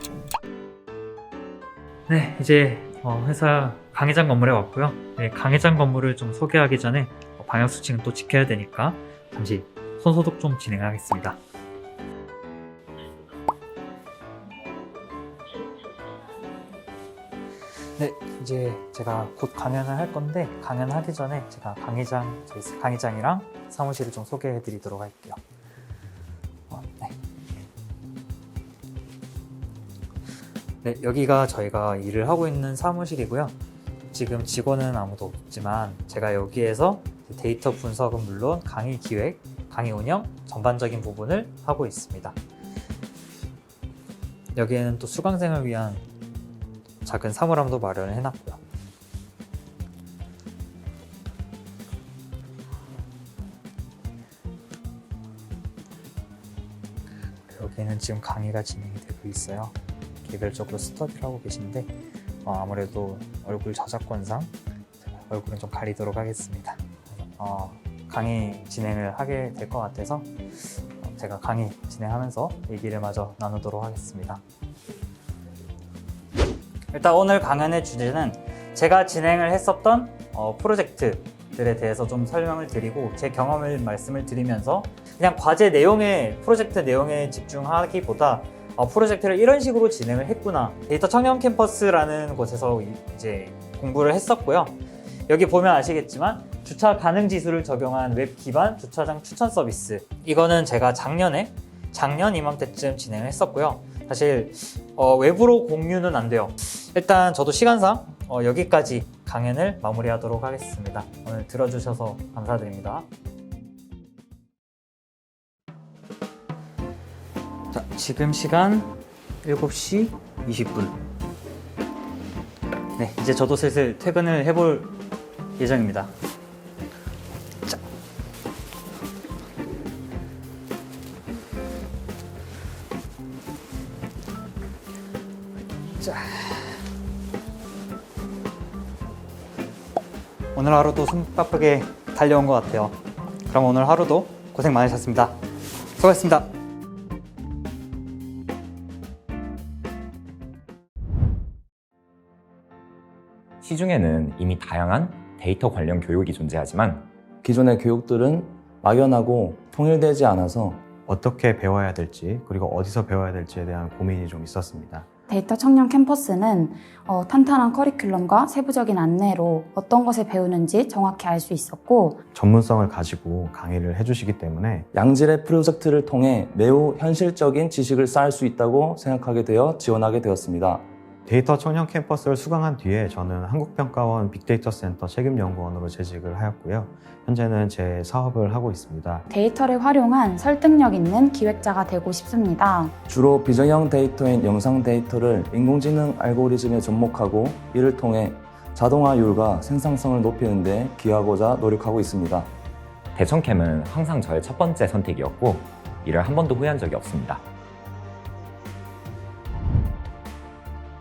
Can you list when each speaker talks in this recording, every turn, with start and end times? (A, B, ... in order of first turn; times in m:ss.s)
0:02.1-0:11.4 A
0:18.0-0:25.4 A
0:26.7-0:27.1 A
0:30.8-0:33.5 A
0:34.1-0:42.4 A
0:44.5-0:46.0 A
0:47.0-0:48.6 A
0:57.5-1:01.9 A
1:02.4-1:04.5 A
1:05.1-1:06.8 A
1:07.4-1:10.3 A
1:11.0-1:14.4 A
1:16.9-1:53.1 A
1:57.7-2:01.0 A
2:03.0-2:04.9 A
2:05.6-2:06.1 A
2:16.0-2:16.8 A
2:20.5-2:23.0 A
2:23.5-2:25.3 A
2:26.0-2:26.5 A
2:33.6-2:37.1 B
2:37.4-2:40.8 C
2:41.1-2:45.1 D
2:45.3-2:52.2 E
2:52.3-2:54.9 D
2:54.9-3:00.8 C
3:01.2-3:09.2 D
3:09.3-3:12.9 E
3:13.1-3:22.5 C
3:23.2-3:27.4 B